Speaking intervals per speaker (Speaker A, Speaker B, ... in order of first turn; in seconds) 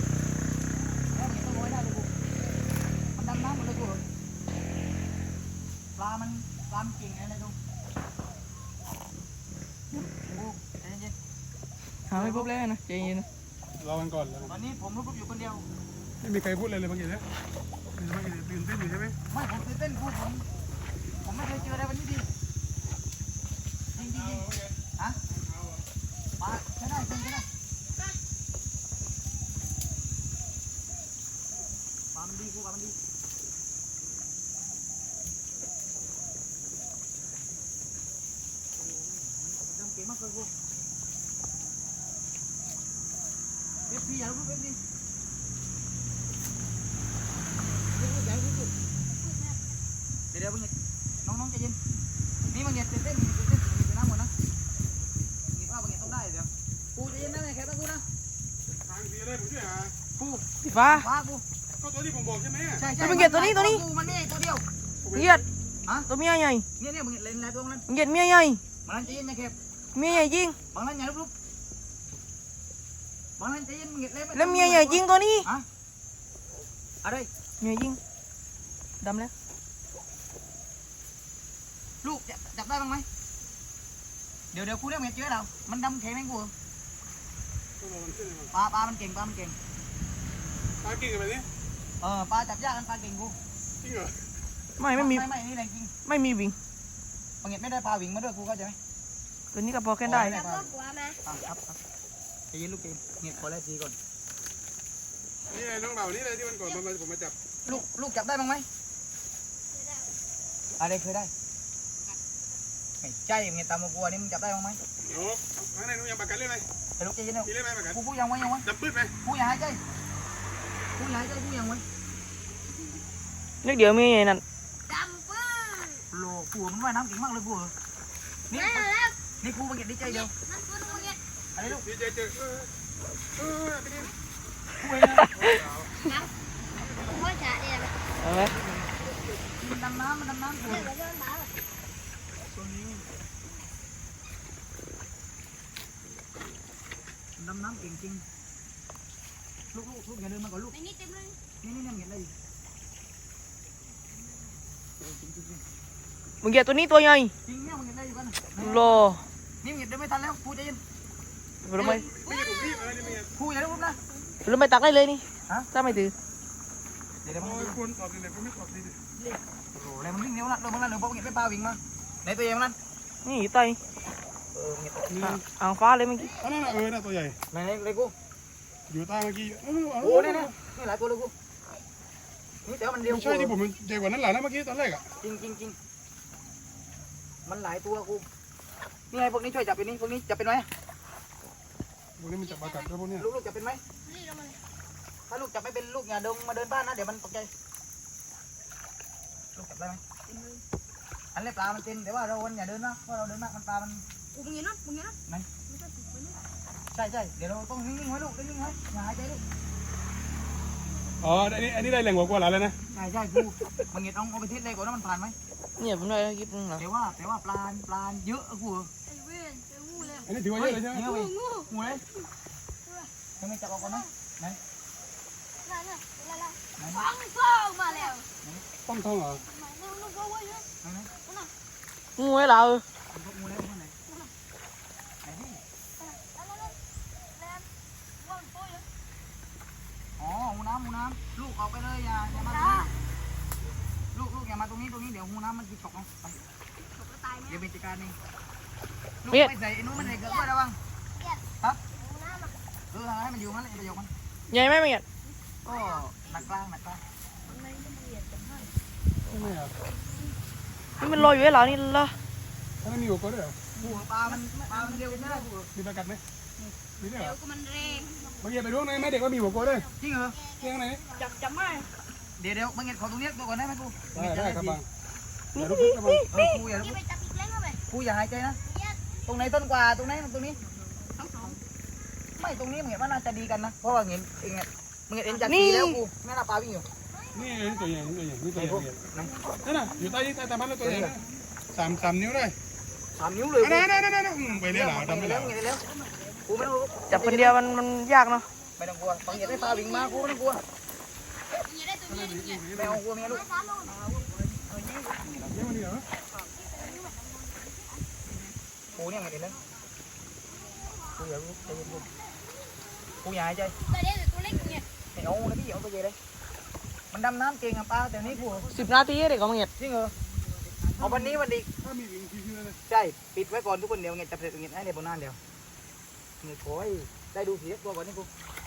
Speaker A: 1.1-2.1, 3.1-4.0, 6.0-7.5, 10.1-11.1, 14.4-15.6, 19.3-20.4, 21.2-22.3, 23.9-24.4, 26.4-27.4, 32.1-33.0, 38.8-40.5, 43.9-44.8, 47.9-48.7, 50.3-51.8, 52.5-54.3, 55.5-58.0, 60.2-61.4, 62.8-64.6, 66.8-67.9, 68.8-69.5, 70.7-71.3, 73.4-75.7, 77.0-77.3, 82.0-83.0, 84.5-86.5, 88.5-89.6, 92.0-93.3, 94.9-95.9, 97.4-98.8, 100.0-100.7, 101.2-101.8, 102.5-104.0, 107.6-108.7, 110.8-111.3, 113.0-114.8, 117.0-118.7, 119.2-119.8, 121.0-121.8, 126.1-127.7, 128.5-130.3, 131.6-131.8, 134.8-135.3, 139.6-140.9, 147.4-148.2, 149.7-150.8, 151.6-152.3, 155.0-155.6, 157.4-158.9, 159.6-160.8, 163.3-164.0, 167.2-167.8, 169.7-172.8, 174.5-175.2, 177.5-178.1, 180.0-181.3, 182.7-183.6, 185.1-185.8, 187.4-188.2, 189.1-190.7, 193.2-193.8, 195.3-197.5, 199.5-200.0, 201.3-204.0, 206.9-209.4, 212.9-215.3, 216.8-218.9, 220.5-222.0, 223.4-224.6, 226.8-227.1, 230.8-231.1, 233.1-233.9, 235.2-235.6, 240.2-242.9, 244.1-246.4, 247.5-248.2, 249.2-250.8, 252.9-254.1, 255.7-257.0, 263.8-265.7, 270.0-270.4, 272.4-274.8, 276.3-277.0, 277.9-278.6, 279.2-280.6, 282.4-286.9, 288.5-289.3, 290.8-291.1, 293.1-294.0, 294.5-295.9, 296.4-297.5, 298.8-300.6, 302.7-303.5, 308.9-309.6, 311.1-312.1, 313.2-313.8, 315.1-316.1, 317.1-318.7, 319.8-320.1, 321.0-321.7, 322.9-325.4, 326.4-328.3
Speaker B: 12.1-13.2, 60.6-61.0, 63.0-63.8, 65.1-65.4, 66.1-66.6, 67.9-68.6, 69.9-70.5, 74.3-75.5, 77.6-78.0, 79.0-79.3, 94.8-95.3, 96.0-96.5, 99.5-100.4, 123.6-124.4, 135.2-135.6, 138.2-138.5, 156.4-157.3, 158.6-159.2, 161.6-162.1, 164.4-166.1, 173.2-173.8, 175.2-176.4, 215.8-216.8, 232.2-232.8, 254.5-255.0, 261.0-262.1, 275.5-276.6, 285.4-286.0, 297.1-298.4, 318.7-319.7
Speaker C: 13.8-14.4, 16.2-17.2, 18.0-19.1, 58.9-59.9, 61.8-62.8, 87.8-88.4, 90.8-91.4, 105.5-107.3, 115.1-116.6, 118.7-119.1, 132.0-132.4, 133.4-134.1, 162.2-163.3, 167.6-168.9, 176.5-177.3, 178.9-180.4, 183.4-185.0, 192.2-193.2, 211.2-212.7, 220.3-221.1, 228.9-229.4, 262.8-263.5, 265.8-266.2, 267.0-267.3, 268.4-269.8, 270.6-271.0, 274.4-274.7, 275.7-276.2, 287.3-288.9, 289.6-291.2, 291.7-292.5, 293.8-295.5, 302.1-302.7, 305.6-306.0, 321.9-322.8
Speaker D: 100.1-101.2, 109.7-110.1, 124.9-126.0, 128.5-129.2, 130.1-131.2, 137.0-137.9, 140.7-141.5, 150.7-151.4, 162.2-163.2, 192.4-192.9, 194.0-194.6, 200.3-200.6, 204.3-205.2, 205.7-206.4, 219.1-220.3, 221.0-221.7, 223.8-224.1, 225.6-228.2, 229.4-230.7, 236.0-236.8, 237.4-237.6, 238.2-238.8, 242.2-242.9, 247.0-247.6, 250.1-250.5, 252.0-252.5, 255.7-256.4, 257.5-258.7, 264.3-265.4, 267.0-268.4, 269.6-271.9, 276.6-277.8, 278.6-279.0, 281.2-281.6, 299.3-300.3, 301.6-302.6, 303.3-304.8, 306.4-308.0, 310.6-311.2, 311.8-312.1, 313.7-314.8